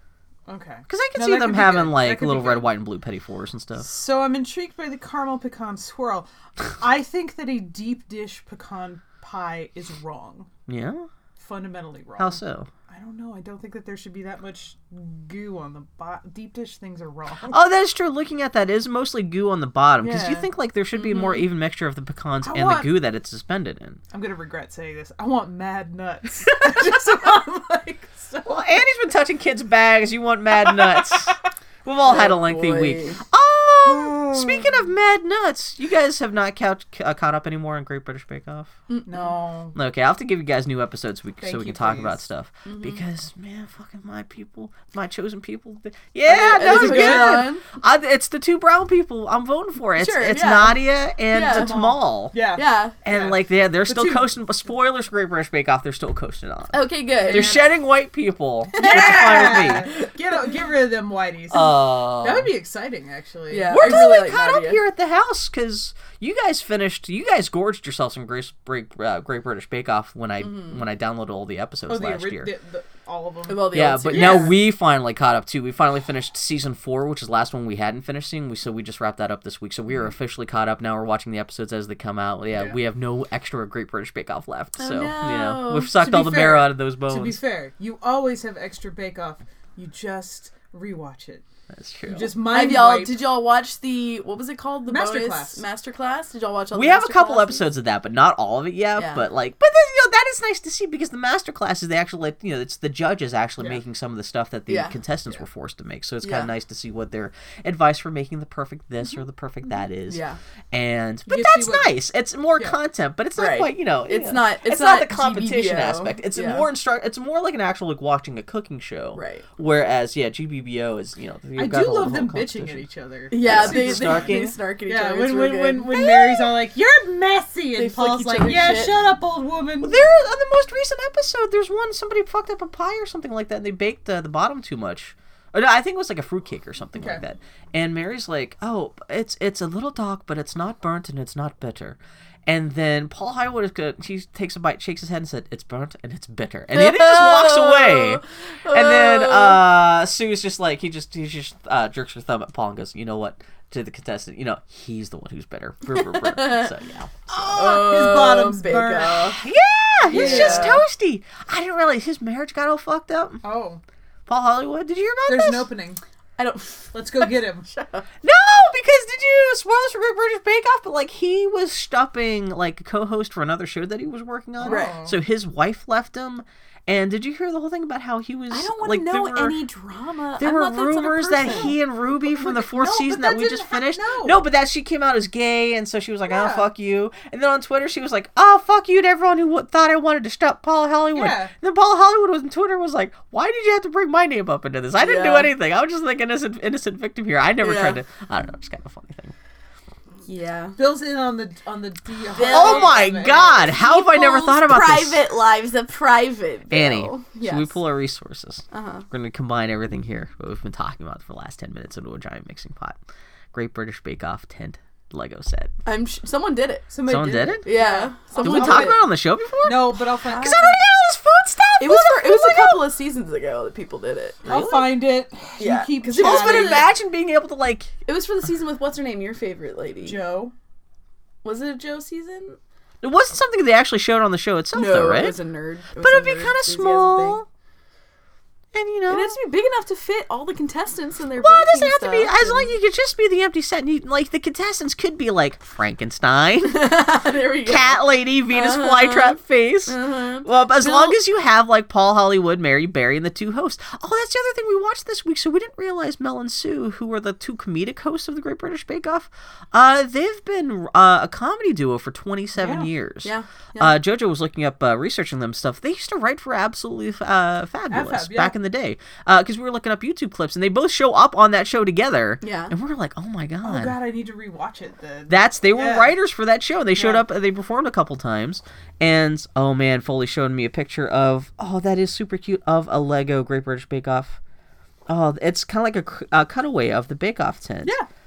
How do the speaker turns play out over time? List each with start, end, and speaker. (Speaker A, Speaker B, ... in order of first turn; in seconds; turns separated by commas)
Speaker A: 0.5-2.7, Speaker B: 0.9-3.9, Speaker A: 3.8-10.5, Speaker B: 10.7-11.1, Speaker A: 11.4-17.6, Speaker B: 12.2-12.7, Speaker B: 17.5-24.0, Speaker A: 20.0-20.4, Speaker A: 22.4-22.9, Speaker A: 24.1-28.8, Speaker B: 28.5-38.8, Speaker A: 30.6-31.4, Speaker C: 32.1-33.2, Speaker A: 33.8-34.9, Speaker C: 38.9-39.3, Speaker A: 39.1-39.8, Speaker B: 39.8-52.4, Speaker A: 41.4-42.2, Speaker C: 42.7-43.0, Speaker C: 46.3-47.6, Speaker A: 46.6-47.5, Speaker C: 50.0-51.7, Speaker A: 51.4-54.3, Speaker C: 52.5-53.0, Speaker B: 53.0-59.9, Speaker C: 56.7-57.6, Speaker A: 57.2-57.6, Speaker C: 58.8-60.1, Speaker A: 58.8-64.0, Speaker B: 61.5-62.5, Speaker C: 63.5-64.8, Speaker B: 63.7-72.5, Speaker C: 70.4-70.8, Speaker A: 71.9-74.5, Speaker C: 73.5-74.5, Speaker B: 73.7-87.4, Speaker C: 84.8-85.9, Speaker A: 86.0-91.5, Speaker B: 91.7-92.3, Speaker A: 92.1-93.2, Speaker C: 92.5-97.6, Speaker A: 94.9-95.6, Speaker B: 96.7-122.8, Speaker C: 99.0-99.2, Speaker C: 104.7-105.0, Speaker C: 106.2-106.5, Speaker C: 110.1-110.4, Speaker A: 111.3-112.0, Speaker C: 113.4-116.7, Speaker C: 119.2-119.5, Speaker A: 121.6-130.0, Speaker C: 123.3-126.5, Speaker B: 123.4-124.5, Speaker C: 127.8-129.0, Speaker B: 129.8-158.0, Speaker A: 136.9-137.2, Speaker C: 146.7-149.6, Speaker C: 155.9-156.7, Speaker A: 157.4-159.3, Speaker C: 157.4-159.4, Speaker B: 159.1-163.4, Speaker C: 160.1-160.8, Speaker A: 160.1-160.8, Speaker A: 163.4-163.8, Speaker B: 164.3-165.7, Speaker A: 165.3-166.0, Speaker C: 166.4-168.1, Speaker A: 166.9-167.7, Speaker B: 168.2-179.6, Speaker A: 174.6-175.2, Speaker C: 174.6-175.0, Speaker C: 178.5-181.8, Speaker B: 180.4-199.3, Speaker A: 181.5-181.7, Speaker A: 182.3-184.4, Speaker C: 186.3-186.7, Speaker A: 191.1-191.5, Speaker C: 195.0-195.5, Speaker C: 197.6-198.0, Speaker C: 200.3-200.8, Speaker A: 200.8-203.8, Speaker C: 202.3-203.0, Speaker B: 202.5-205.2, Speaker C: 203.7-207.8, Speaker B: 206.7-213.0, Speaker C: 208.7-209.1, Speaker B: 213.5-215.7, Speaker C: 215.9-216.9, Speaker A: 216.9-219.1, Speaker B: 217.1-217.7, Speaker C: 217.6-219.0, Speaker B: 218.4-222.8, Speaker A: 219.6-220.8, Speaker C: 221.8-224.4, Speaker B: 224.4-224.9, Speaker A: 224.5-226.9, Speaker C: 225.6-226.9, Speaker B: 226.2-227.9, Speaker C: 228.1-230.2, Speaker A: 230.1-230.5, Speaker C: 231.4-232.6, Speaker B: 233.0-235.4, Speaker C: 234.7-237.4, Speaker B: 236.0-237.5, Speaker B: 238.7-239.4, Speaker C: 239.1-242.7, Speaker B: 241.4-246.9, Speaker C: 246.6-248.0, Speaker B: 247.7-274.0, Speaker C: 248.5-251.2, Speaker A: 262.6-262.9, Speaker C: 263.2-264.0, Speaker A: 267.9-268.5, Speaker C: 272.4-272.7, Speaker A: 273.6-276.1, Speaker B: 275.3-284.4, Speaker A: 277.0-277.2, Speaker B: 285.1-287.9, Speaker A: 287.8-288.1